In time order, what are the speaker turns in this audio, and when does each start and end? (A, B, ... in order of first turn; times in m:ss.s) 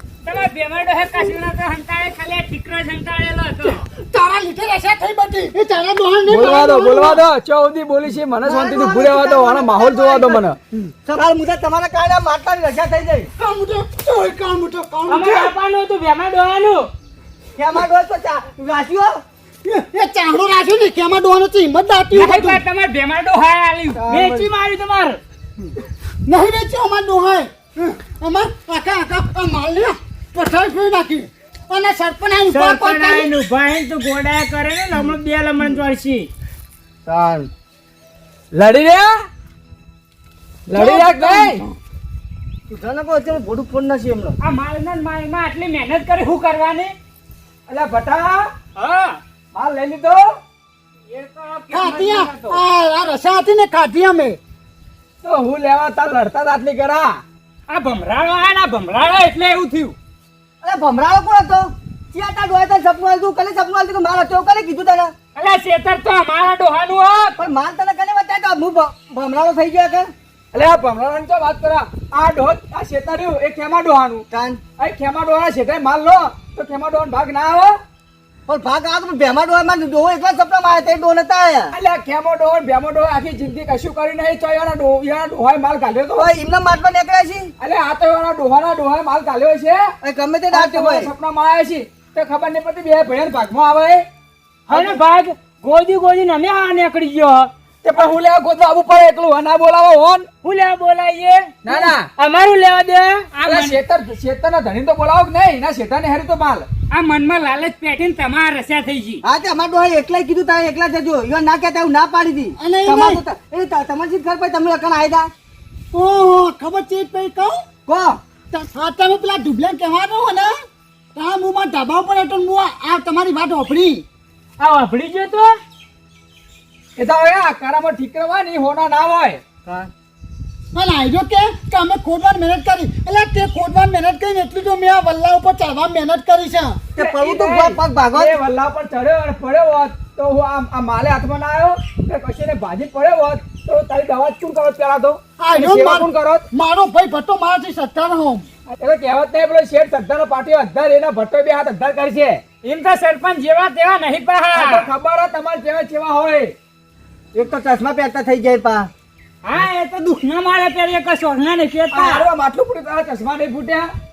0:00.2-0:03.8 A
0:03.8-0:07.2 B
0:06.3-0:10.6 C
0:08.5-0:10.3 D
0:08.5-0:10.3 B
0:11.0-0:13.3 D
0:13.4-0:15.5 B
0:15.1-0:16.9 A
0:17.6-0:19.2 D
0:19.6-0:22.6 B
0:22.1-0:25.2 A
0:24.0-0:24.4 D
0:24.0-0:24.5 C
0:26.2-0:33.3 B
0:32.5-0:36.3 A
0:37.1-0:37.5 D
0:38.5-0:39.1 C
0:40.7-0:41.6 C
0:40.7-0:41.8 B
0:42.7-0:44.4 D
0:44.4-0:46.9 A
0:47.7-0:48.5 C
0:48.8-0:49.2 A
0:49.5-0:50.3 C
0:51.1-0:52.6 A
0:51.7-0:54.4 B
0:55.2-0:57.2 C
0:57.7-1:00.0 A
1:00.6-1:05.1 D
1:05.4-1:07.4 A
1:07.4-1:10.1 D
1:10.5-1:14.3 C
1:14.3-1:14.6 D
1:14.8-1:17.8 C
1:18.5-1:21.8 D
1:21.7-1:26.3 C
1:26.2-1:27.5 D
1:27.6-1:29.8 C
1:30.0-1:31.1 D
1:30.5-1:34.0 C
1:34.7-1:37.5 A
1:34.7-1:35.0 C
1:37.8-1:40.3 C
1:40.4-1:43.8 A
1:41.6-1:42.1 C
1:43.4-1:46.7 C
1:46.9-1:49.2 A
1:49.2-1:55.3 D
1:52.6-1:53.2 B
1:55.9-1:57.7 B
1:57.9-1:58.2 D
1:58.5-2:00.6 B
2:01.2-2:04.0 B
2:04.6-2:05.6 A
2:07.0-2:09.4 C
2:09.6-2:09.9 D
2:10.7-2:16.9 B
2:17.0-2:26.4 C
2:17.0-2:18.4 D
2:25.4-2:28.5 B
2:28.7-2:32.4 C
2:32.6-2:34.9 A
2:34.5-2:36.6 C
2:37.3-2:38.9 D
2:39.4-2:42.3 A
2:41.9-2:43.9 C